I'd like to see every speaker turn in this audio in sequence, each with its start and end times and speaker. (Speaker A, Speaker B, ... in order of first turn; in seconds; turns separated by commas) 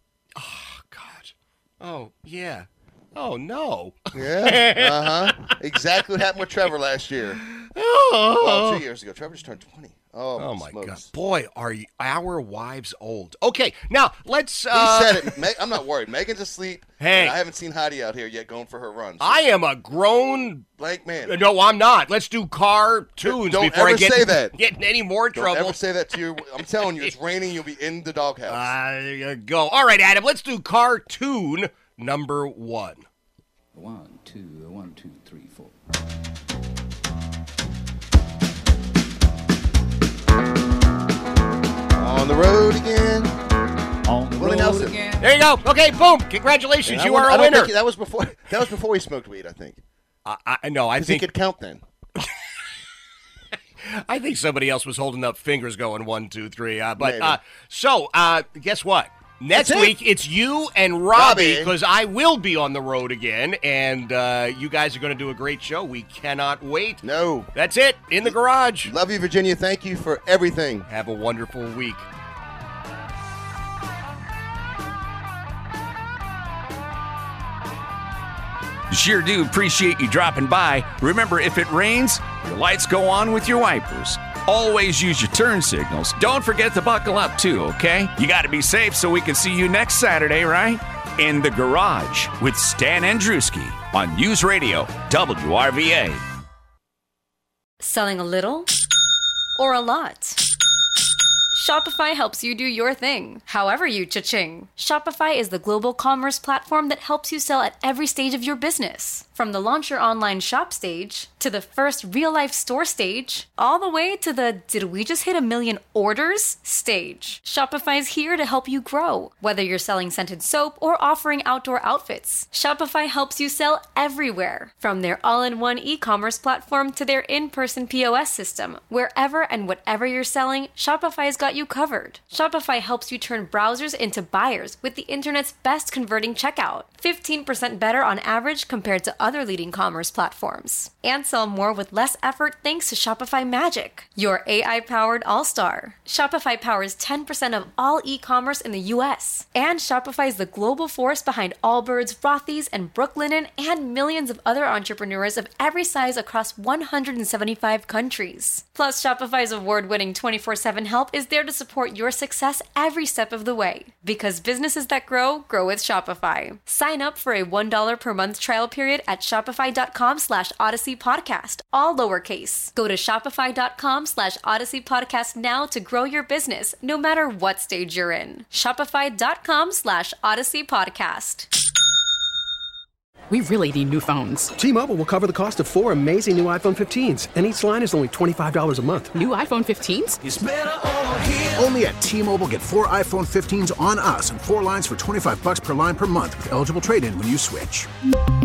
Speaker A: 0.3-5.5, Speaker B: 4.1-7.4, Speaker A: 7.4-8.8, Speaker B: 8.4-11.1, Speaker A: 10.4-15.4, Speaker B: 14.7-19.4, Speaker A: 17.0-17.4, Speaker A: 19.2-20.7, Speaker B: 20.8-21.4, Speaker A: 21.2-25.8, Speaker B: 23.2-24.6, Speaker B: 25.3-28.7, Speaker A: 28.5-33.0, Speaker C: 33.7-35.7, Speaker B: 41.9-43.4, Speaker C: 44.0-45.2, Speaker B: 44.3-45.0, Speaker A: 45.1-47.7, Speaker B: 46.8-49.8, Speaker A: 50.2-51.3, Speaker B: 51.0-51.8, Speaker A: 53.8-68.9, Speaker B: 57.0-57.4, Speaker B: 59.5-60.0, Speaker B: 61.1-61.7, Speaker B: 67.0-67.5, Speaker B: 68.2-70.9, Speaker A: 70.9-72.0, Speaker D: 78.9-96.2, Speaker E: 97.8-98.7, Speaker E: 99.6-100.4, Speaker E: 101.5-181.5, Speaker F: 183.3-184.5, Speaker G: 184.6-189.1, Speaker F: 189.1-190.2, Speaker H: 191.4-197.9